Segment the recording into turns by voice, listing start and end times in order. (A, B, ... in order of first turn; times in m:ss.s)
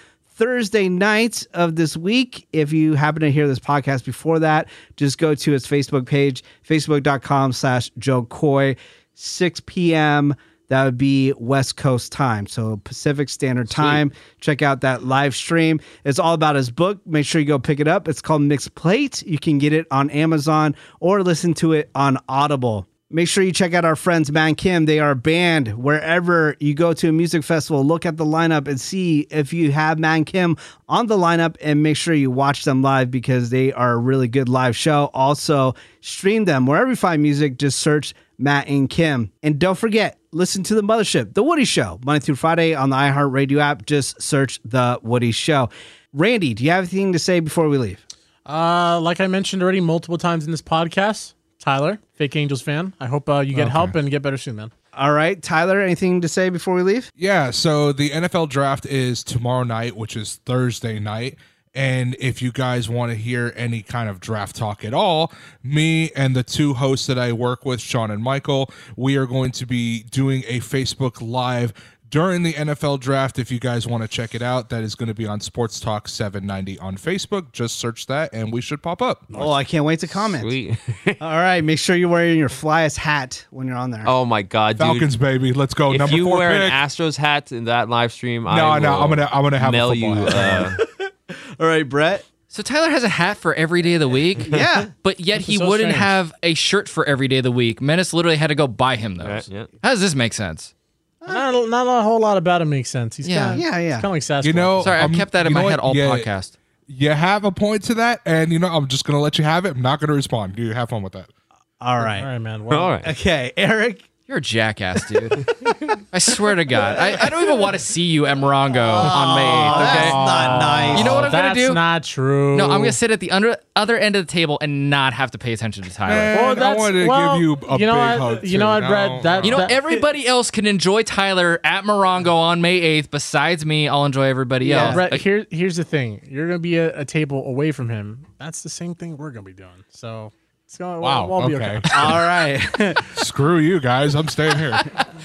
0:00.4-0:48.0 A
0:13.7-0:14.0 B
0:48.5-0:54.7 C
0:53.6-0:53.9 D
0:55.0-0:57.1 A
0:57.2-1:19.5 D
1:19.3-1:20.5 A
1:20.1-1:21.2 B
1:21.2-1:24.1 A
1:24.0-1:25.1 B
1:24.8-1:26.8 D
1:25.9-1:30.8 B
1:28.5-1:30.8 D
1:30.3-1:32.2 A
1:32.5-1:40.7 E
1:34.4-1:34.9 A
1:35.3-1:36.2 C
1:39.2-1:39.7 B
1:41.3-1:45.1 C
1:43.2-1:43.6 E
1:43.5-1:44.1 A
1:44.4-1:46.3 D
1:44.8-1:46.6 E
1:46.9-1:51.3 D
1:51.8-1:52.3 A
1:52.0-1:53.0 C
1:52.7-1:53.1 B
1:53.0-1:54.0 A
1:54.3-1:55.5 E
1:56.1-2:01.8 E
1:56.8-1:57.2 A
1:58.9-2:01.4 A
1:59.0-2:03.0 C
2:00.0-2:00.9 D
2:02.5-2:06.5 E
2:06.0-2:09.7 D
2:06.3-2:09.8 C
2:09.4-2:15.2 E
2:14.6-2:15.0 A
2:14.6-2:22.2 C
2:21.0-2:22.2 D
2:21.9-2:23.0 A
2:23.1-2:25.0 D